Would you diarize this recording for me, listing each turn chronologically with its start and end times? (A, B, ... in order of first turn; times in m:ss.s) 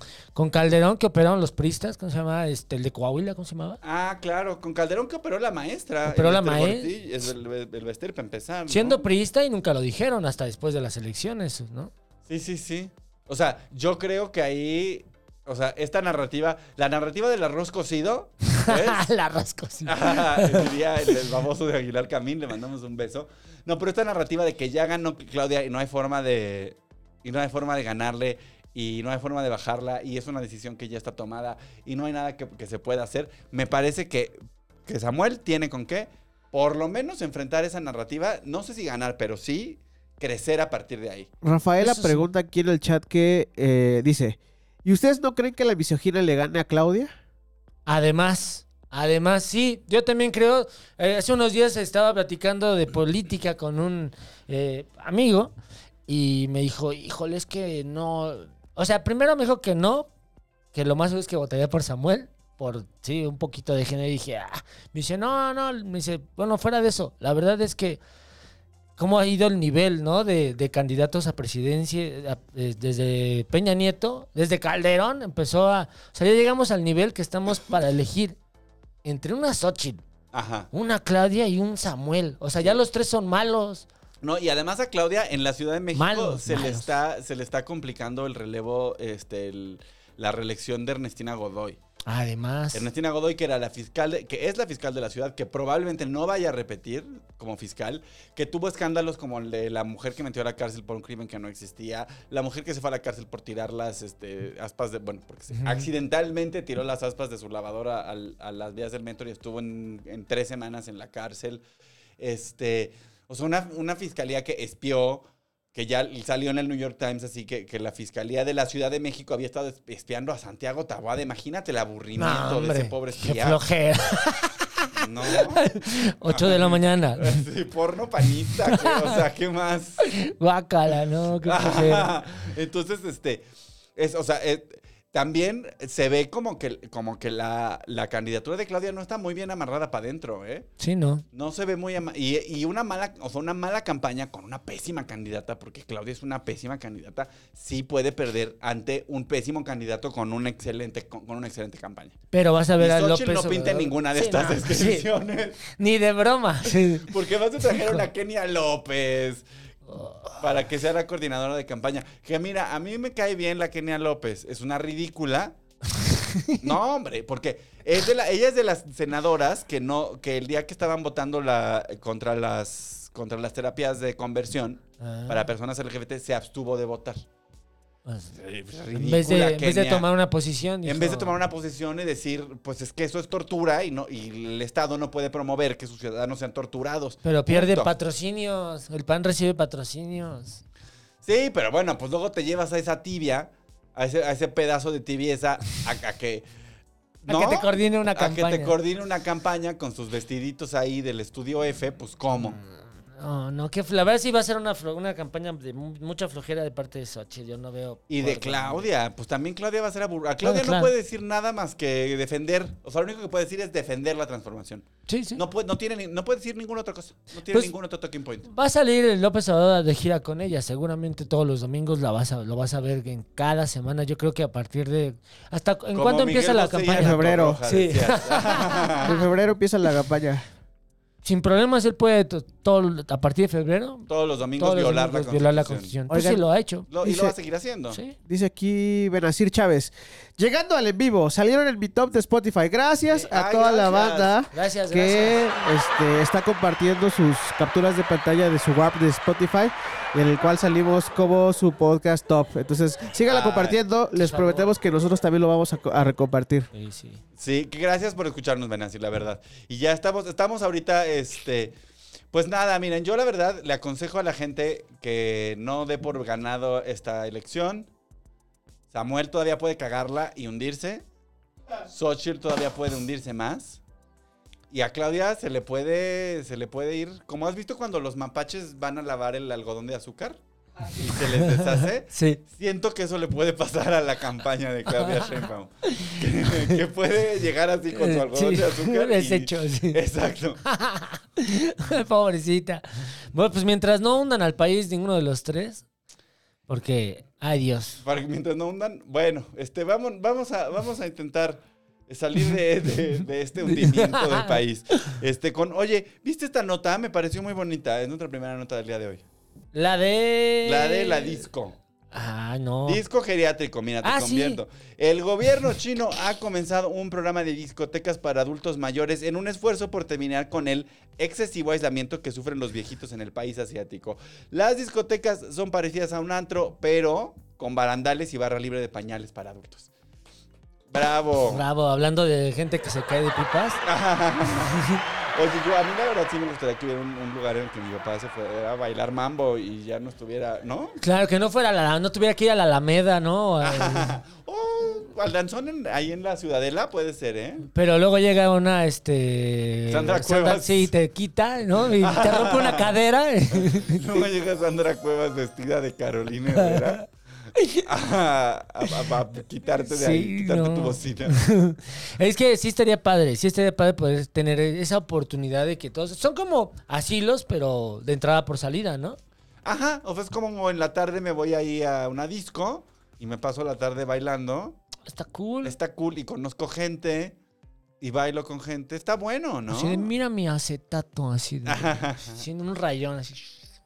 0:00.3-0:03.8 A
0:03.8-0:09.0 B
0:06.0-0:06.9 A
0:08.7-0:11.9 A
0:12.3-0:19.1 B
0:18.6-0:21.1 A
0:19.8-0:41.3 B
0:41.4-0:47.1 C
0:41.8-0:42.3 A
0:47.8-0:55.5 A
0:56.1-1:00.1 A
1:00.7-1:08.0 A
1:09.0-1:18.4 A
1:19.0-1:20.0 A
1:20.3-1:20.7 B
1:20.7-1:23.9 A
1:24.2-1:31.8 B
1:25.9-1:26.9 A
1:32.0-1:32.9 A
1:32.7-1:51.6 B
1:45.5-1:45.9 A
1:52.2-2:03.6 B
2:02.2-2:07.4 A
2:04.9-2:05.6 B
2:06.3-2:10.0 B
2:08.6-2:09.2 A
2:10.0-2:12.1 A
2:11.4-2:13.4 B
2:14.0-2:20.7 B
2:20.8-2:21.2 A
2:21.3-2:32.2 B
2:32.3-2:35.1 A
2:32.8-2:35.6 B
2:35.7-2:37.1 A
2:37.0-2:39.4 B
2:39.9-2:40.4 A
2:40.4-2:45.6 B
2:46.0-2:46.6 A
2:46.6-2:57.2 B
2:55.0-2:55.4 A
2:58.0-2:58.3 A
2:58.3-3:00.1 B
2:58.9-3:01.4 A
3:00.8-3:07.9 B
3:07.2-3:10.6 A
3:11.2-3:16.4 B
3:17.3-3:18.8 A
3:17.3-3:22.6 B
3:22.6-3:28.8 A
3:28.1-3:38.5 B
3:30.4-3:30.9 A
3:35.1-3:35.4 A
3:38.5-3:49.2 A
3:45.9-3:49.2 B
3:47.0-3:47.6 C
3:49.0-3:50.4 C
3:51.2-3:56.9 A
3:54.1-3:55.9 B
3:56.1-3:56.4 C
3:56.9-3:58.0 B
3:57.0-3:57.3 C
3:57.9-3:58.2 A
3:58.2-4:16.7 C
4:03.2-4:04.4 B
4:04.5-4:05.4 A
4:13.2-4:13.8 B
4:14.2-4:14.7 A
4:16.7-4:17.2 A
4:17.4-4:21.7 B
4:22.3-4:27.9 B
4:28.9-4:31.0 B
4:31.9-4:33.8 B
4:34.7-4:40.4 B
4:40.9-4:50.6 B
4:41.4-4:42.4 A
4:44.9-4:46.8 A
4:47.9-4:50.0 A
4:50.6-4:55.8 A
4:56.7-4:58.0 A
4:58.0-5:09.2 B
5:03.7-5:04.6 A
5:09.7-5:11.4 A
5:10.6-5:11.8 B
5:12.1-5:13.0 A
5:12.8-5:29.9 B
5:14.0-5:14.6 A
5:30.9-5:31.6 B
5:31.5-5:33.8 A
5:33.8-5:41.0 B
5:41.0-5:44.2 A
5:43.6-5:47.7 B
5:47.7-5:54.2 A
5:49.9-5:50.9 B
5:52.0-5:52.9 B
5:53.5-5:57.1 B
5:56.5-5:57.0 A
5:57.6-5:57.8 A
5:57.8-6:01.4 B
5:59.9-6:09.2 A
6:09.6-6:14.8 B
6:15.1-6:15.8 A
6:15.6-6:17.4 B
6:18.0-6:20.1 B
6:19.7-6:23.4 A
6:21.6-6:22.4 B